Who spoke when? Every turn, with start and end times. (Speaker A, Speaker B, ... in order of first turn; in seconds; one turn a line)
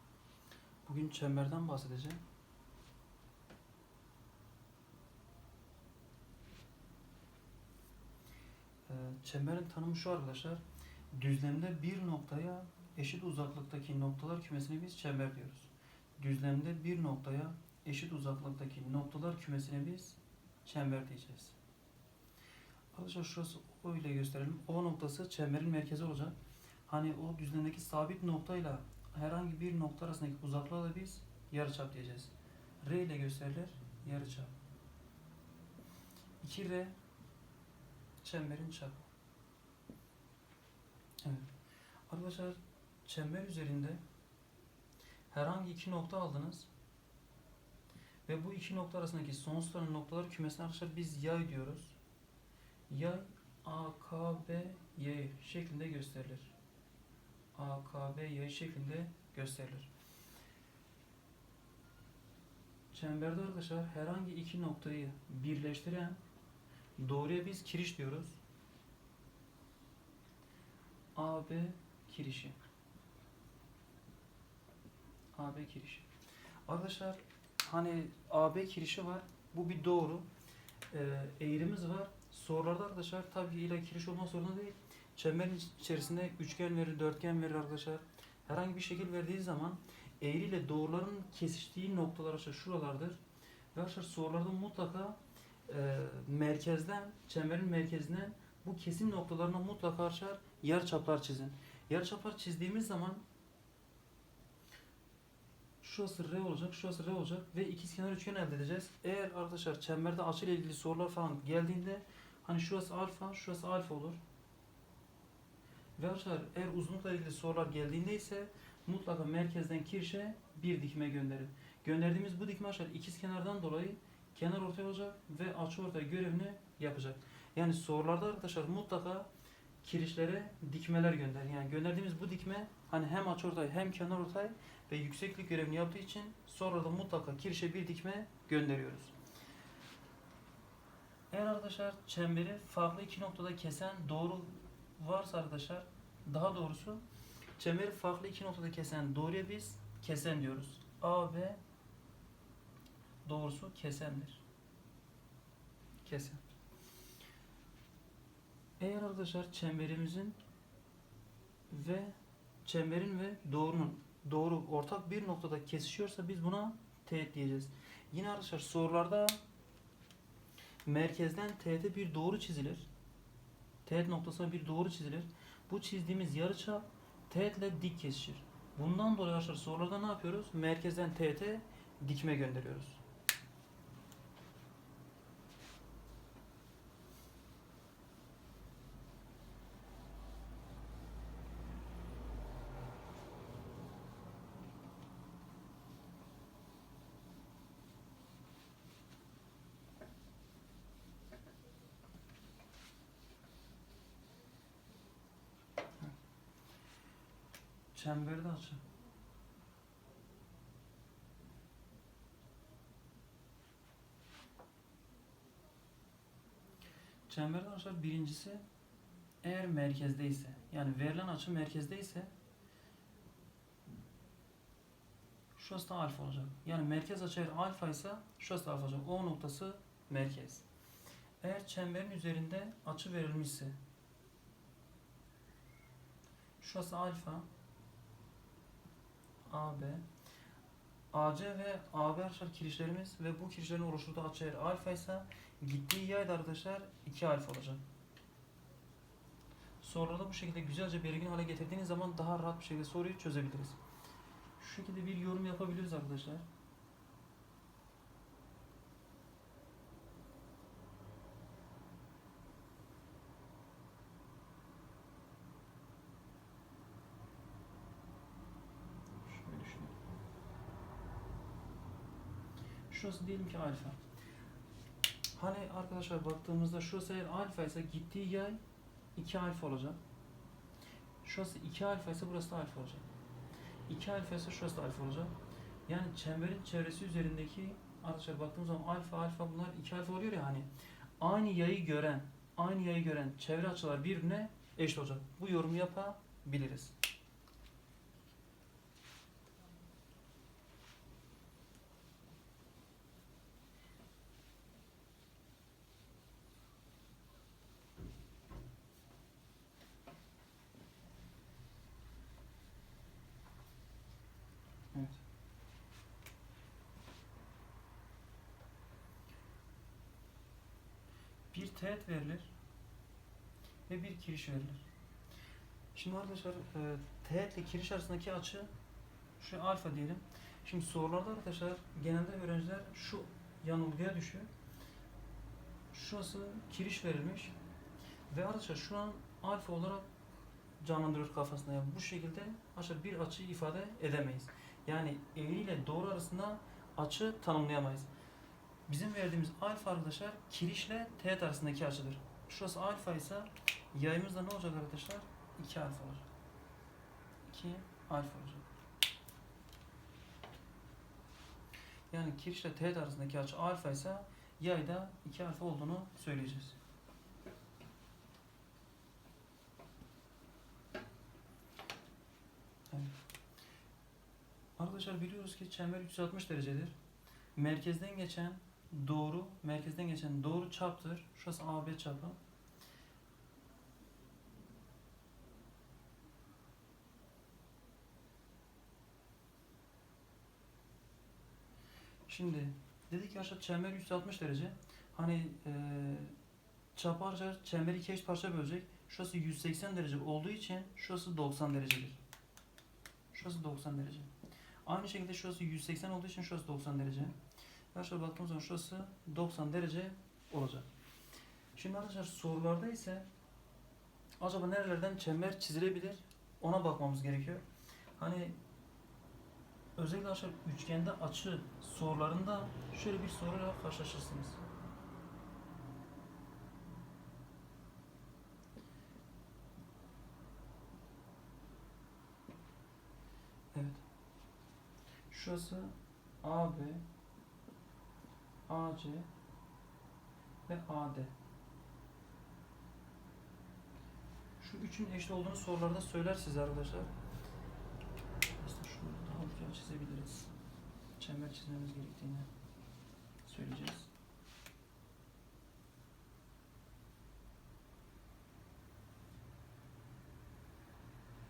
Speaker A: 0.8-2.2
Speaker A: 8.9-21.6
Speaker A: 22.9-34.5
Speaker A: 36.4-37.0
Speaker A: 38.2-39.1
Speaker A: 41.2-41.5
Speaker A: 42.1-44.0
Speaker A: 45.3-46.7
Speaker A: 48.2-52.0
Speaker A: 52.9-56.5
Speaker A: 57.5-59.9
Speaker A: 62.9-66.2
Speaker A: 67.0-68.4
Speaker A: 71.1-72.6
Speaker A: 75.3-76.1
Speaker A: 76.7-80.3
Speaker A: 80.9-93.2
Speaker A: 93.7-103.2
Speaker A: 105.8-114.2
Speaker A: 116.0-129.3
Speaker A: 129.8-139.1
Speaker A: 141.3-147.0
Speaker A: 147.6-151.6
Speaker A: 153.2-154.4
Speaker A: 156.0-156.4
Speaker A: 158.8-160.4
Speaker A: 161.7-169.4
Speaker A: 170.8-172.9
Speaker A: 173.8-183.0
Speaker A: 207.9-208.8
Speaker A: 217.3-218.6
Speaker A: 219.4-222.3
Speaker A: 225.6-230.7
Speaker A: 231.4-233.8
Speaker A: 236.6-237.5
Speaker A: 239.4-240.0
Speaker A: 241.1-247.8
Speaker A: 249.8-253.8
Speaker A: 254.6-256.4
Speaker A: 269.2-270.0
Speaker A: 272.9-274.0
Speaker A: 275.3-278.6
Speaker A: 279.1-280.0
Speaker A: 281.2-283.1
Speaker A: 283.9-285.3
Speaker A: 285.9-296.9
Speaker A: 314.9-315.2
Speaker A: 321.5-322.5
Speaker A: 323.9-324.9
Speaker A: 325.9-328.7
Speaker A: 329.4-334.5
Speaker A: 335.9-337.6
Speaker A: 338.3-340.1
Speaker A: 340.8-348.1
Speaker A: 348.9-356.3
Speaker A: 357.5-358.6
Speaker A: 362.1-366.8
Speaker A: 372.9-373.1
Speaker A: 374.8-376.9
Speaker A: 377.5-382.4
Speaker A: 392.3-396.3
Speaker A: 396.9-402.2
Speaker A: 403.3-404.3
Speaker A: 404.8-407.3
Speaker A: 407.9-410.9
Speaker A: 411.7-413.3
Speaker A: 414.4-417.6
Speaker A: 418.1-418.6
Speaker A: 420.0-424.6
Speaker A: 433.7-434.0
Speaker A: 435.3-437.1
Speaker A: 438.7-439.3
Speaker A: 440.6-441.3
Speaker A: 444.6-447.1
Speaker A: 448.5-450.5
Speaker A: 451.2-452.5
Speaker A: 453.4-454.1